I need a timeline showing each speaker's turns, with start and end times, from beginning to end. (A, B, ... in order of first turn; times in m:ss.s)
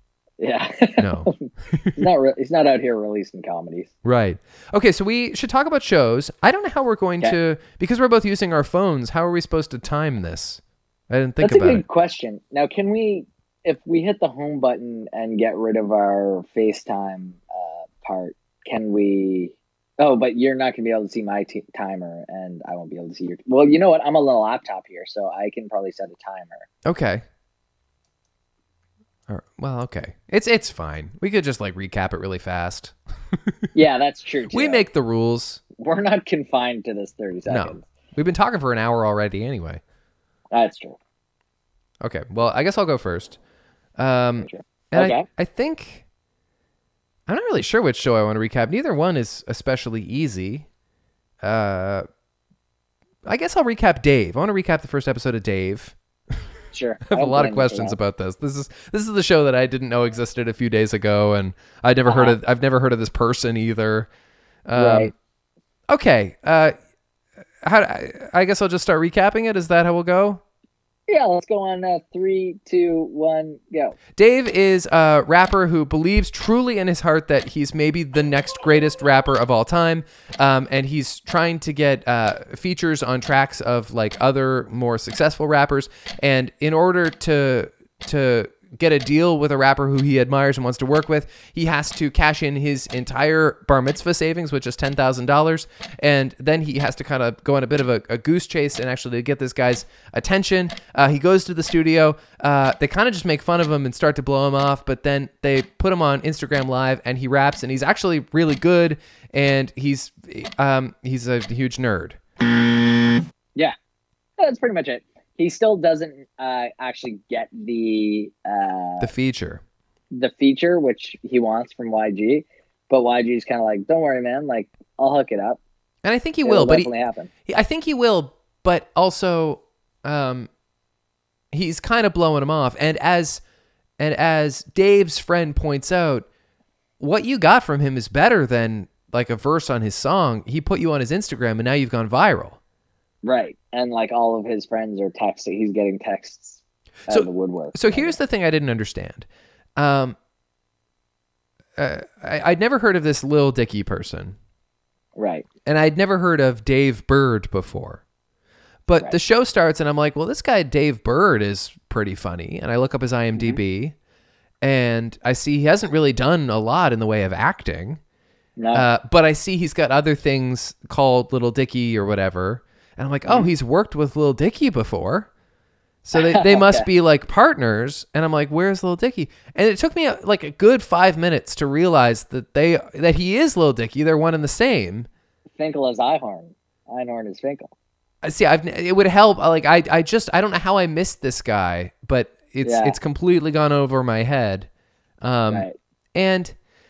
0:00.4-0:03.9 A
0:01.0-0:02.1 B
0:04.0-0:11.8 B
0:11.4-0:26.7 A
0:26.8-0:27.2 B
0:29.3-0:33.7 B
0:33.7-0:34.8 A
0:34.5-0:35.6 B
0:35.7-0:37.8 A
0:37.5-0:39.8 B
0:40.5-0:41.0 A
0:42.0-0:43.4 B
0:44.0-0:46.0 B
0:44.4-0:45.3 A
0:47.3-0:50.7 B
0:51.4-0:52.0 B
0:53.2-0:56.5 B
0:56.7-0:58.0 A
0:57.1-1:04.1 B
1:02.0-1:02.4 A
1:04.7-1:05.1 B
1:04.8-1:05.1 A
1:05.9-1:06.7 B
1:07.6-1:10.4 B
1:11.1-1:14.0 A
1:14.1-1:52.2 B
1:54.4-1:59.1 A
1:59.0-1:59.6 B
2:00.1-2:05.6 A
2:06.0-2:06.9 B
2:06.4-2:07.3 A
2:07.4-2:10.5 B
2:11.5-2:13.4 B
2:14.0-2:16.2 B
2:17.0-2:22.6 B
2:23.2-2:28.2 A
2:27.1-2:30.2 B
2:31.8-2:34.4 B
2:35.2-2:35.4 A
2:35.6-2:38.0 B
2:38.9-2:43.9 B
2:44.6-2:48.0 B
2:48.6-2:48.8 A
2:48.7-2:55.3 B
2:53.3-2:53.5 A
2:56.0-3:05.1 B
2:56.1-2:56.9 A
3:05.6-3:07.7 A
3:08.2-3:14.7 B
3:12.6-3:13.0 A
3:15.2-3:16.5 B
3:15.5-3:15.8 A